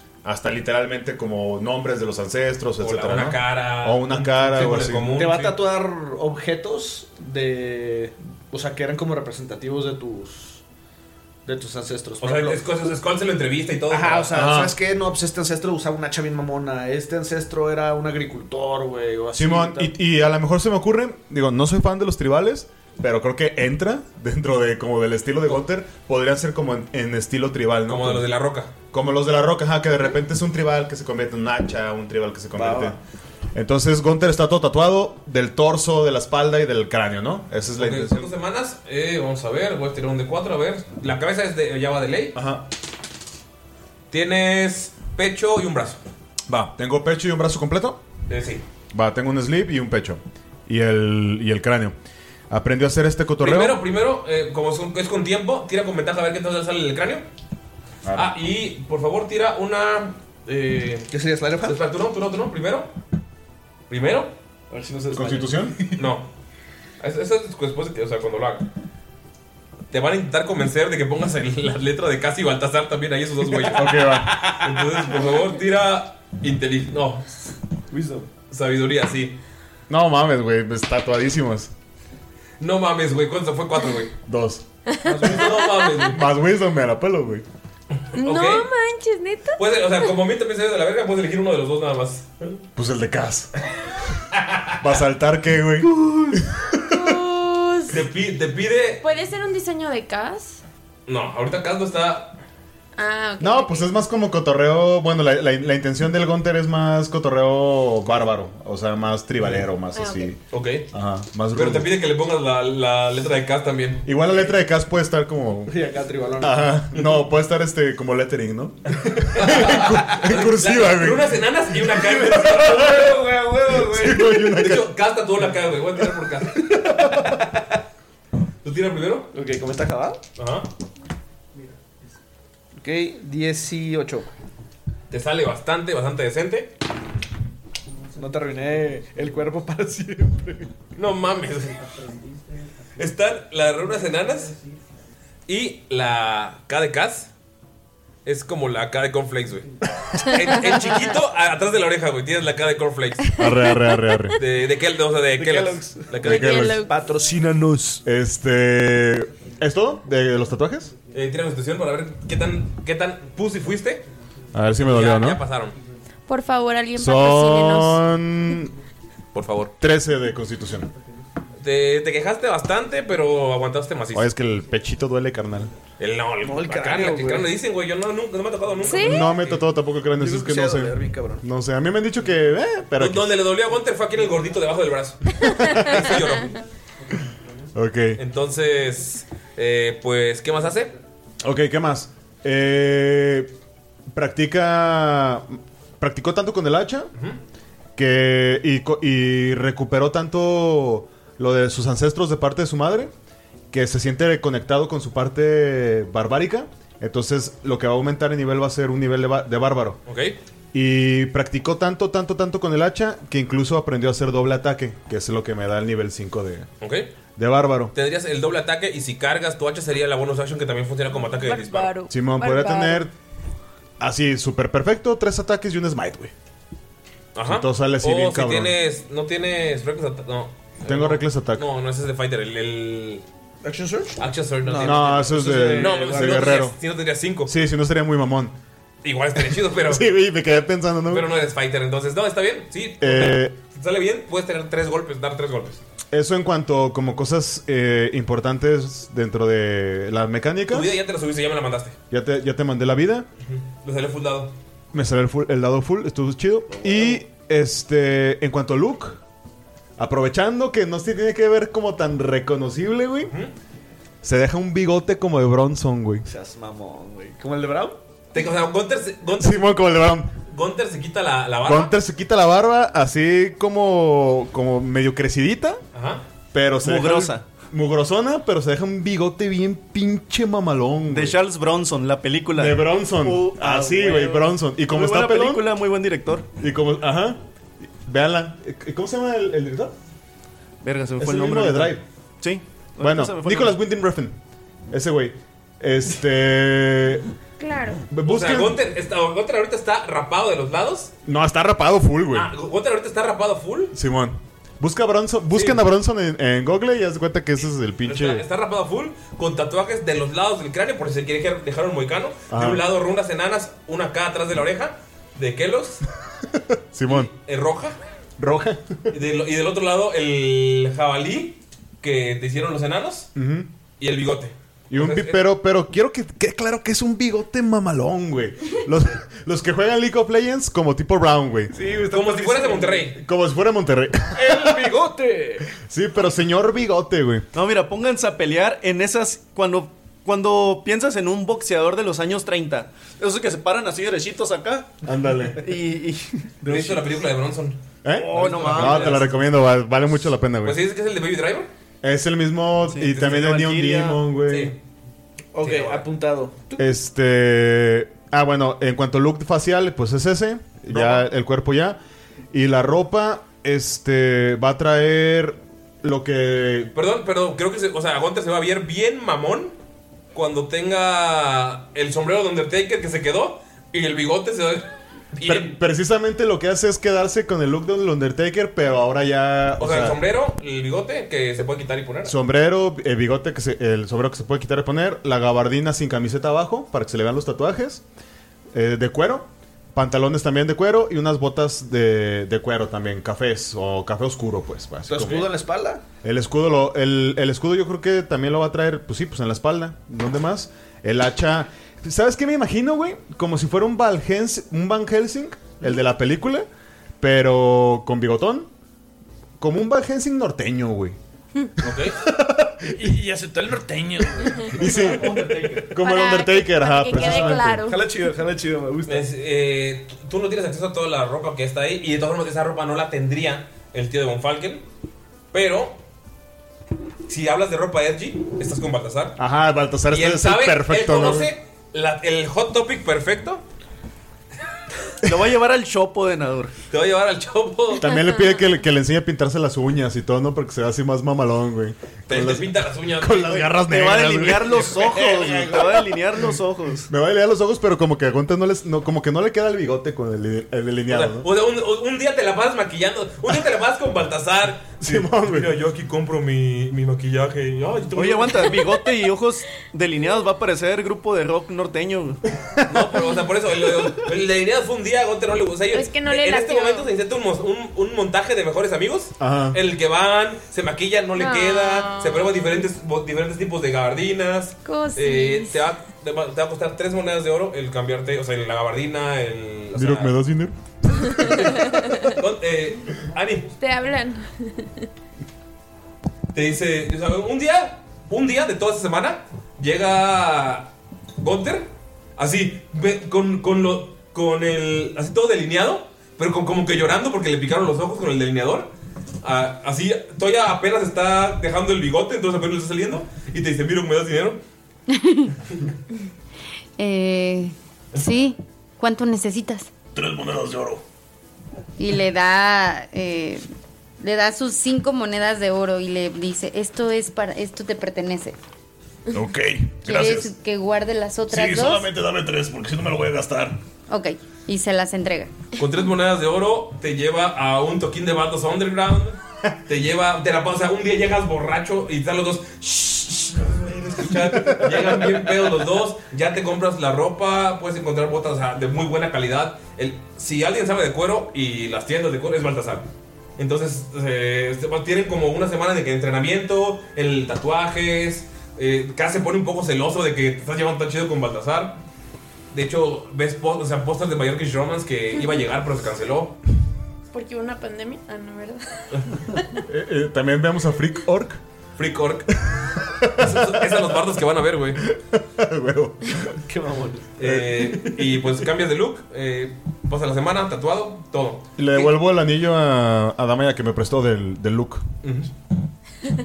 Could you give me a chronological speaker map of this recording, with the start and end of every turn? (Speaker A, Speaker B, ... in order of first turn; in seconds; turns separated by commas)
Speaker A: 0.2-5.1, Speaker B: 2.8-5.6, Speaker C: 5.1-10.6, Speaker C: 11.4-12.6, Speaker B: 12.2-14.5, Speaker C: 13.9-19.9, Speaker A: 14.3-14.7, Speaker A: 19.3-28.2, Speaker B: 27.9-28.7, Speaker A: 28.9-33.0, Speaker C: 32.5-33.0, Speaker A: 33.5-38.3, Speaker B: 37.8-42.3, Speaker A: 42.3-42.6, Speaker B: 44.1-46.0, Speaker A: 46.5-48.0, Speaker B: 48.3-48.6, Speaker A: 48.9-51.9, Speaker A: 52.5-53.8, Speaker B: 53.4-57.2, Speaker A: 58.0-58.3, Speaker B: 58.1-61.1, Speaker C: 61.1-61.8, Speaker B: 61.6-62.9, Speaker B: 63.9-64.3, Speaker C: 64.7-66.0, Speaker A: 65.1-65.8, Speaker B: 66.0-66.3, Speaker B: 67.0-68.7, Speaker B: 69.9-77.4, Speaker A: 73.7-74.4, Speaker C: 74.5-75.2, Speaker C: 77.9-78.3, Speaker B: 78.5-79.4, Speaker A: 79.9-81.7, Speaker B: 82.6-84.1, Speaker A: 84.2-84.6, Speaker D: 84.9-85.9, Speaker B: 85.0-86.2, Speaker C: 85.1-85.4, Speaker A: 86.1-87.4, Speaker D: 88.1-89.6, Speaker B: 88.2-88.7, Speaker B: 89.6-92.6, Speaker A: 92.8-93.5, Speaker B: 94.3-94.8, Speaker A: 94.8-97.1, Speaker C: 95.8-96.4, Speaker D: 96.8-98.0, Speaker B: 97.9-99.0, Speaker D: 99.0-100.6, Speaker B: 101.1-102.4, Speaker D: 103.0-103.9, Speaker A: 103.4-110.4, Speaker D: 109.9-110.3, Speaker B: 110.5-110.9, Speaker A: 110.9-111.9, Speaker B: 111.5-114.4, Speaker A: 114.0-115.8, Speaker C: 115.7-116.7, Speaker A: 116.4-121.4, Speaker C: 119.2-120.2, Speaker B: 119.3-123.2, Speaker C: 121.9-124.6, Speaker A: 123.8-124.9, Speaker B: 124.6-126.7, Speaker C: 126.6-127.6, Speaker B: 128.6-129.3, Speaker C: 129.3-130.2, Speaker B: 130.4-130.7, Speaker C: 132.8-134.3, Speaker B: 135.1-136.7, Speaker C: 138.1-140.7, Speaker B: 140.9-141.9, Speaker B: 142.9-144.5, Speaker B: 145.5-147.3, Speaker B: 148.2-153.4, Speaker A: 153.4-154.4, Speaker B: 154.3-156.7, Speaker C: 155.3-158.0, Speaker A: 156.2-156.8, Speaker D: 156.2-156.9, Speaker A: 158.0-160.9, Speaker B: 161.1-164.0, Speaker A: 164.5-165.4, Speaker B: 164.8-165.8, Speaker D: 166.3-168.0, Speaker A: 166.9-168.7, Speaker B: 169.3-169.7, Speaker A: 169.8-170.9, Speaker B: 171.6-174.3, Speaker A: 174.1-175.7, Speaker B: 176.0-179.6, Speaker C: 176.4-177.5, Speaker D: 178.8-179.3, Speaker A: 178.9-183.3, Speaker C: 180.1-181.4, Speaker B: 183.0-186.6, Speaker D: 185.4-185.9, Speaker A: 185.6-186.0, Speaker A: 187.7-188.2, Speaker B: 188.2-190.9, Speaker A: 191.4-193.5, Speaker A: 194.1-197.1, Speaker A: 198.0-203.1, Speaker A: 203.7-210.0, Speaker B: 210.1-210.3, Speaker A: 210.7-216.7, Speaker B: 216.8-217.1, Speaker A: 217.4-217.9, Speaker B: 217.9-221.9, Speaker D: 221.3-223.1, Speaker A: 222.1-223.1, Speaker A: 224.0-226.3, Speaker B: 227.3-233.2, Speaker A: 227.4-228.7, Speaker A: 230.8-231.7, Speaker C: 233.6-236.6, Speaker B: 234.2-237.5, Speaker A: 234.8-236.8, Speaker A: 237.4-238.5, Speaker B: 239.0-240.1, Speaker A: 239.6-241.3, Speaker B: 241.1-245.8, Speaker A: 243.0-243.5, Speaker A: 246.1-251.0, Speaker B: 250.7-251.9, Speaker A: 252.1-253.3, Speaker B: 253.5-254.5, Speaker A: 254.9-259.2, Speaker C: 256.7-257.2, Speaker A: 260.0-263.3, Speaker A: 264.2-266.2, Speaker C: 266.2-268.0, Speaker B: 268.3-269.8, Speaker A: 269.4-270.3, Speaker B: 270.5-271.9, Speaker A: 271.6-275.8, Speaker B: 275.9-276.2, Speaker A: 276.5-281.4, Speaker E: 276.8-277.4, Speaker E: 281.1-286.5, Speaker A: 282.5-285.7, Speaker A: 286.6-287.4, Speaker A: 288.0-289.9, Speaker E: 290.8-293.7, Speaker A: 291.2-292.0, Speaker A: 293.0-294.3, Speaker A: 294.9-297.2, Speaker D: 297.6-298.0, Speaker A: 298.1-298.8, Speaker B: 298.2-301.1, Speaker A: 301.2-302.5, Speaker B: 302.3-303.9, Speaker A: 303.9-308.4, Speaker B: 305.5-305.8, Speaker B: 308.1-316.0, Speaker A: 312.5-312.8, Speaker A: 316.5-317.3, Speaker B: 317.1-318.0, Speaker A: 318.4-319.1, Speaker B: 319.1-323.3, Speaker A: 323.3-323.7, Speaker B: 324.0-325.4, Speaker A: 324.9-331.7, Speaker C: 331.7-333.1, Speaker B: 332.1-333.2, Speaker A: 333.1-334.9, Speaker C: 334.3-335.7, Speaker A: 335.8-337.4, Speaker E: 337.5-344.9, Speaker A: 345.0-345.6, Speaker E: 345.6-346.7, Speaker B: 346.6-347.8, Speaker A: 348.0-350.8, Speaker C: 348.2-348.9, Speaker E: 348.2-349.3, Speaker B: 348.3-349.3, Speaker B: 350.6-351.7, Speaker A: 352.0-354.7, Speaker E: 352.9-354.2, Speaker B: 354.5-354.8, Speaker C: 355.5-356.9, Speaker B: 355.6-356.1, Speaker A: 356.8-362.0, Speaker B: 360.9-361.3, Speaker A: 362.5-366.9, Speaker B: 366.9-369.7, Speaker B: 370.3-375.8, Speaker A: 375.4-380.2, Speaker B: 379.8-382.3, Speaker A: 382.2-388.0, Speaker A: 388.7-395.5, Speaker C: 395.1-396.0, Speaker A: 396.2-406.7, Speaker A: 407.2-408.7, Speaker A: 409.6-411.2, Speaker B: 411.8-412.2, Speaker A: 411.9-413.1, Speaker C: 412.9-415.9, Speaker A: 414.7-417.9, Speaker D: 415.9-418.0, Speaker C: 417.2-419.2, Speaker B: 419.1-424.8, Speaker B: 425.5-426.0, Speaker B: 427.3-429.4, Speaker A: 429.4-431.5, Speaker B: 430.1-433.6, Speaker E: 435.2-436.7, Speaker B: 436.9-438.1, Speaker A: 437.9-444.8, Speaker B: 442.3-443.8, Speaker E: 443.8-447.1, Speaker B: 444.9-446.0, Speaker A: 447.1-451.5, Speaker B: 451.1-458.9, Speaker A: 455.0-455.8, Speaker E: 458.1-462.4, Speaker B: 462.9-480.4, Speaker D: 465.9-467.1, Speaker A: 469.4-469.8, Speaker D: 471.4-472.6, Speaker D: 474.8-475.9, Speaker A: 479.9-481.8, Speaker B: 481.4-483.7, Speaker D: 481.9-482.2, Speaker D: 483.8-485.1, Speaker B: 486.5-498.9, Speaker B: 499.4-504.6, Speaker F: 505.1-505.5, Speaker F: 507.0-509.9, Speaker G: 510.1-511.0, Speaker F: 512.0-513.6, Speaker F: 514.2-518.5, Speaker G: 519.3-520.5, Speaker F: 520.0-522.1, Speaker G: 521.5-523.8, Speaker F: 524.1-525.5, Speaker B: 525.8-543.1, Speaker A: 534.5-534.8, Speaker B: 543.6-552.0, Speaker B: 552.7-556.6, Speaker D: 557.3-559.1, Speaker A: 559.9-561.6, Speaker B: 562.0-562.5, Speaker A: 562.6-564.0, Speaker B: 563.4-565.0, Speaker A: 565.0-566.5, Speaker C: 566.6-567.3, Speaker B: 567.4-572.1, Speaker A: 567.4-567.8, Speaker A: 571.8-575.0, Speaker B: 575.2-575.5